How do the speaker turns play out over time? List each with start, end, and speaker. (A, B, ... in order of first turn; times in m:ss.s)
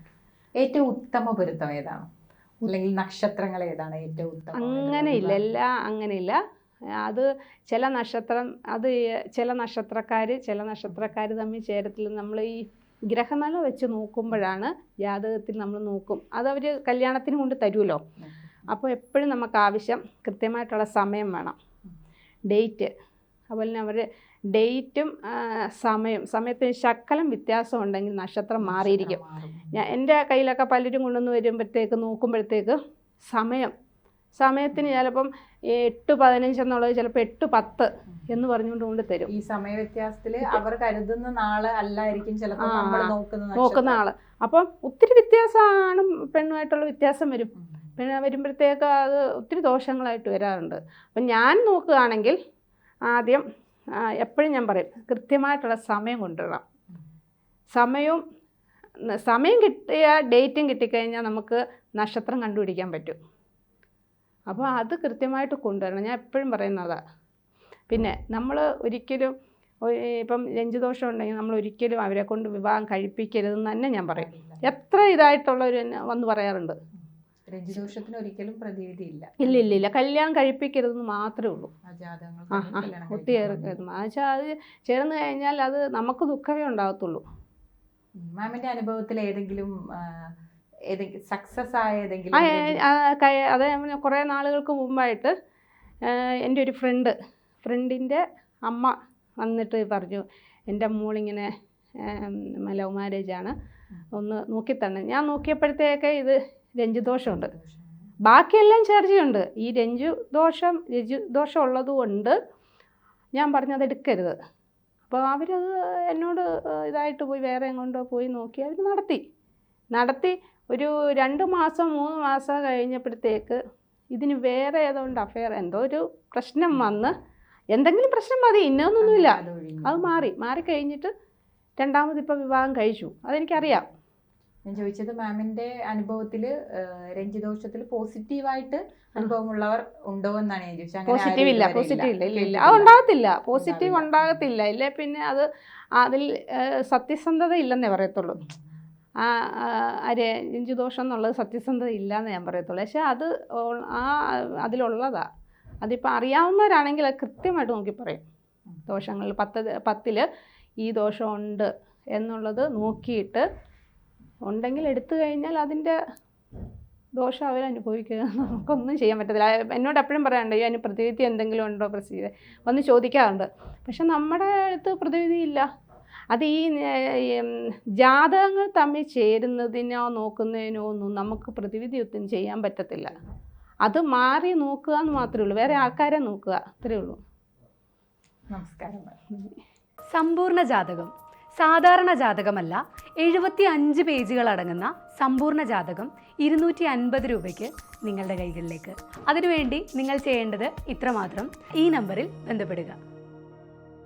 0:00.6-0:02.0 A
0:02.6-0:05.4 A
0:04.5-0:06.4 B
0:07.0-0:18.0 B
0:18.2-0:18.6 A
0:18.7-0:21.6 B
0:22.5-0:22.9 B
0:23.5-0:29.2 B
0:28.6-0:29.7 A
0:29.7-0:32.8 B
0:33.3-0:33.7 B
0:34.4-0:39.3 B
0:39.3-0:44.0 A
0:42.6-0:52.4 B
0:53.1-0:53.4 B
0:54.0-0:56.6 B
0:57.7-0:58.2 B
0:59.0-1:03.2 B
1:04.5-1:07.0 B
1:07.9-1:16.7 B
1:14.0-1:14.7 A
1:17.4-1:19.7 A
1:19.4-1:21.7 B
1:21.8-1:23.8 A
1:22.5-1:27.2 B
1:28.2-1:30.3 A
1:30.9-1:32.8 A
1:32.3-1:35.3 B
1:36.0-1:41.5 B
1:42.0-1:43.5 B
1:44.1-1:47.5 B
1:47.2-1:47.9 A
1:48.2-1:52.4 B
1:53.3-1:54.3 B
1:55.1-1:59.2 B
1:59.9-2:03.6 B
2:04.1-2:07.1 B
2:07.7-2:11.1 B
2:09.0-2:10.3 A
2:11.8-2:13.9 B
2:14.6-2:22.9 A
2:21.1-2:28.4 B
2:23.5-2:24.3 A
2:29.2-2:35.3 B
2:35.8-2:38.2 B
2:38.9-2:40.2 B
2:40.8-2:43.4 B
2:44.4-2:46.0 B
2:47.2-2:55.6 B
2:56.3-3:03.2 B
3:03.8-3:07.2 B
3:08.5-3:09.2 A
3:10.1-3:23.0 C